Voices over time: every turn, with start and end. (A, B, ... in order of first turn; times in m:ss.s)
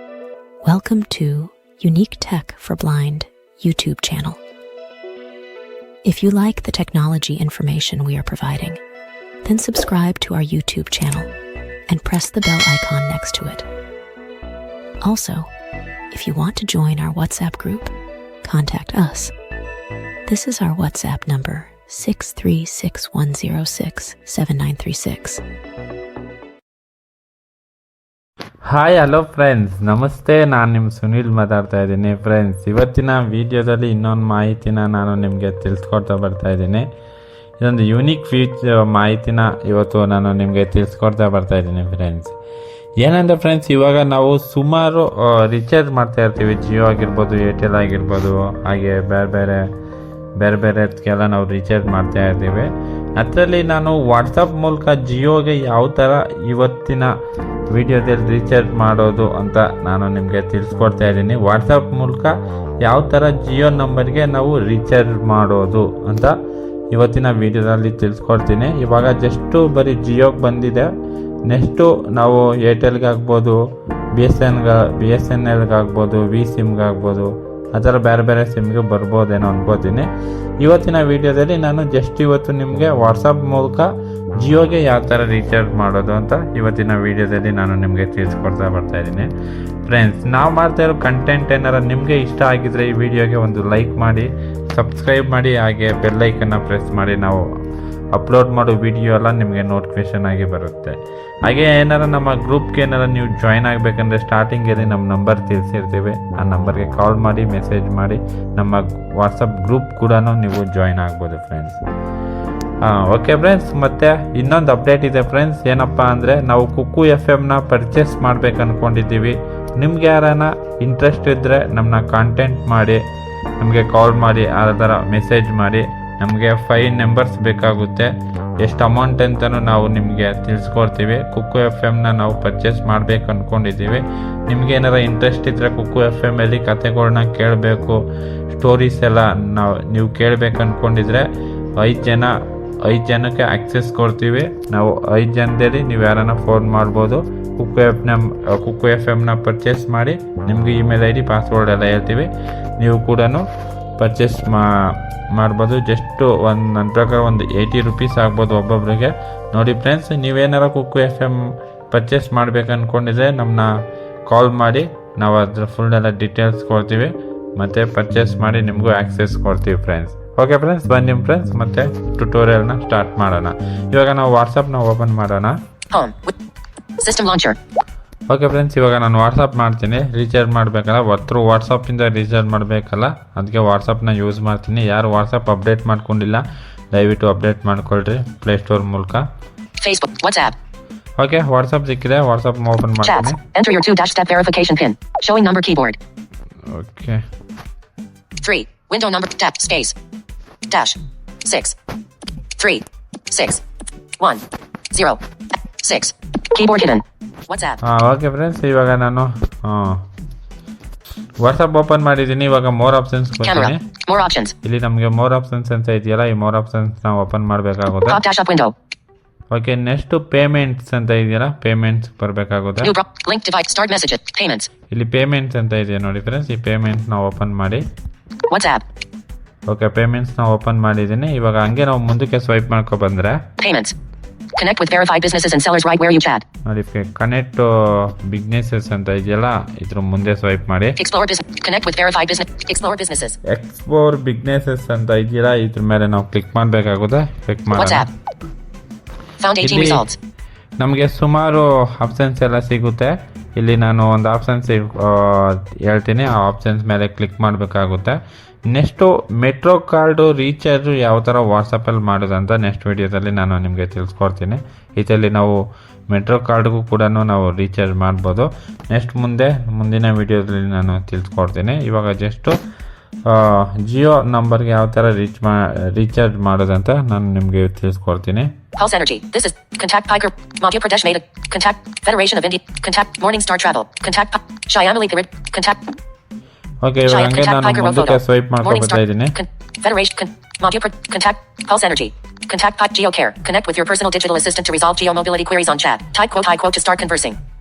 0:00.6-0:04.4 A
0:06.0-0:08.8 A
0:09.4-0:11.3 A
0:11.9-0:13.7 A
0:15.0-0:15.5 A
0:16.1-0:17.9 A
0:18.4-0:19.3 A
0:20.3-0:25.4 A
0:28.6-0:36.9 B
0:37.6-0:42.4 B
0:43.0-0:49.6 B
0:50.4-0:57.1 B
0:57.7-1:02.3 B
1:02.8-1:06.3 B
1:06.9-1:10.9 B
1:11.5-1:13.6 B
1:14.2-1:20.1 B
1:20.6-1:23.9 B
1:24.4-1:29.3 B
1:29.8-1:37.4 B
1:38.1-1:51.8 B
1:52.8-2:03.0 B
2:03.6-2:18.0 B
2:18.5-2:22.3 B
2:22.8-2:33.4 B
2:34.0-2:43.7 B
2:44.3-2:55.6 B
2:55.9-2:56.3 C
2:57.0-2:57.6 C
2:58.3-3:09.2 B
3:09.8-3:10.6 C
3:11.2-3:13.4 B
3:13.0-3:16.0 C
3:16.7-3:17.2 B
3:18.4-3:20.0 C
3:20.7-3:21.7 C
3:22.6-3:23.6 C
3:24.2-3:25.2 C
3:25.8-3:27.8 C
3:27.8-3:30.0 B
3:31.4-3:33.8 B
3:33.4-3:34.5 C
3:34.6-3:38.2 B
3:38.1-3:38.7 C
3:39.5-3:42.9 B
3:42.8-3:44.7 C
3:44.9-3:47.8 B
3:48.5-3:48.8 C
3:49.7-3:53.4 B
3:53.6-3:53.9 C
3:54.6-3:56.4 C
3:56.6-4:01.0 B
4:01.0-4:03.4 C
4:03.4-4:08.1 B
4:07.7-4:08.1 C
4:09.4-4:10.2 C
4:09.6-4:10.0 B
4:10.8-4:18.2 B
4:18.7-4:25.6 B
4:26.1-4:32.6 B
4:33.3-4:38.5 B
4:38.8-4:45.8 C
4:46.8-4:49.3 B
4:47.0-4:57.4 C